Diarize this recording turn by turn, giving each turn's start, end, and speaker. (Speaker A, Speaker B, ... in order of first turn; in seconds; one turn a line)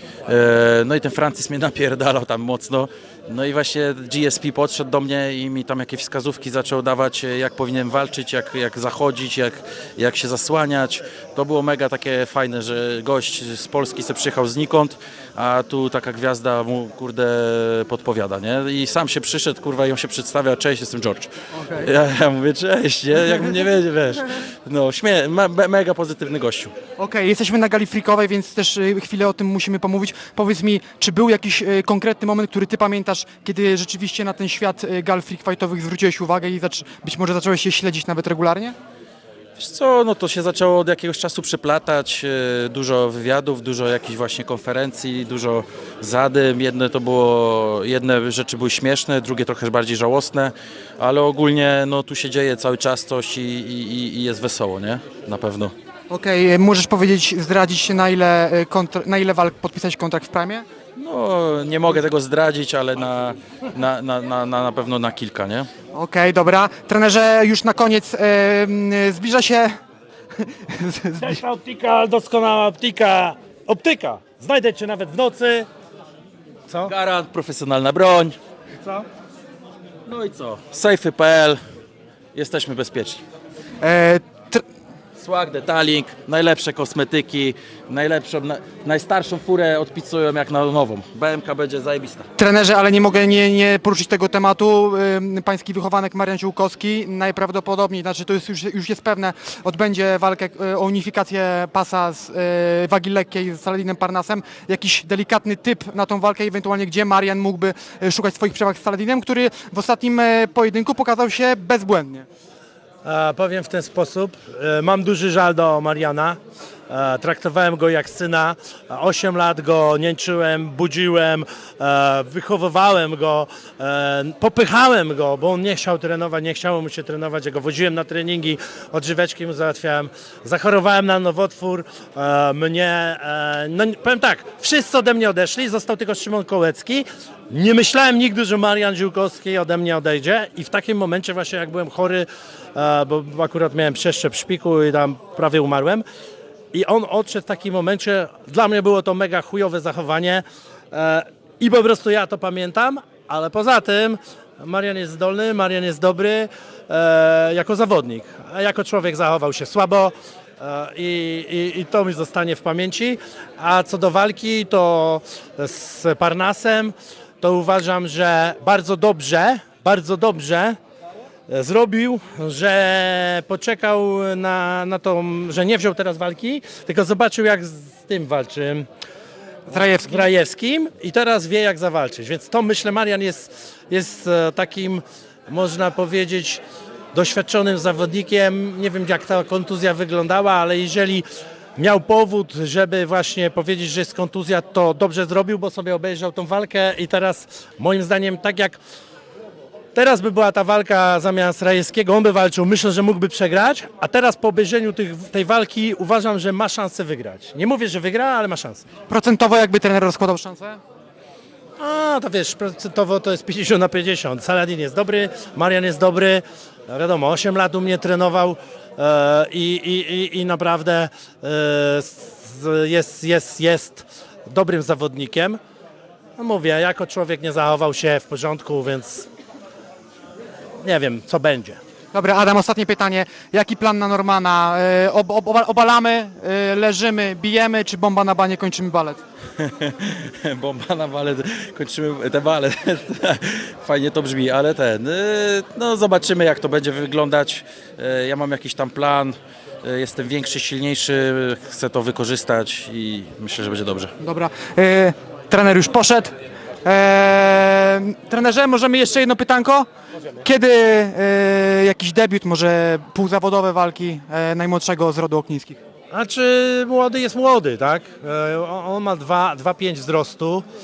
Speaker A: 0.3-26.7
Speaker B: 21.5-21.9
Speaker B: 27.0-38.7
Speaker A: 39.6-55.7
Speaker B: 56.1-60.6
Speaker A: 61.0-65.7
Speaker B: 65.9-69.7
Speaker B: 70.3-71.4
Speaker C: 71.2-75.7
Speaker A: 76.8-78.3
Speaker A: 80.1-81.6
Speaker A: 82.3-83.2
Speaker B: 83.8-84.6
Speaker A: 85.2-92.2
Speaker B: 92.4-112.3
Speaker C: 113.0-116.4
Speaker C: 116.9-146.0
Speaker C: 146.7-170.8
Speaker C: 171.5-178.8
Speaker B: 179.7-180.2
Speaker C: 179.9-186.6
Speaker C: 187.1-191.2
Speaker C: 191.8-198.8
Speaker C: 199.9-208.8
Speaker B: 209.1-210.8
Speaker C: 211.8-225.6
Speaker C: 226.4-229.3
Speaker C: 230.8-231.8
Speaker B: 232.1-239.2
Speaker A: 239.6-254.1
Speaker B: 254.2-256.3
Speaker B: 256.8-259.9
Speaker B: 260.4-265.8
Speaker C: 266.1-270.6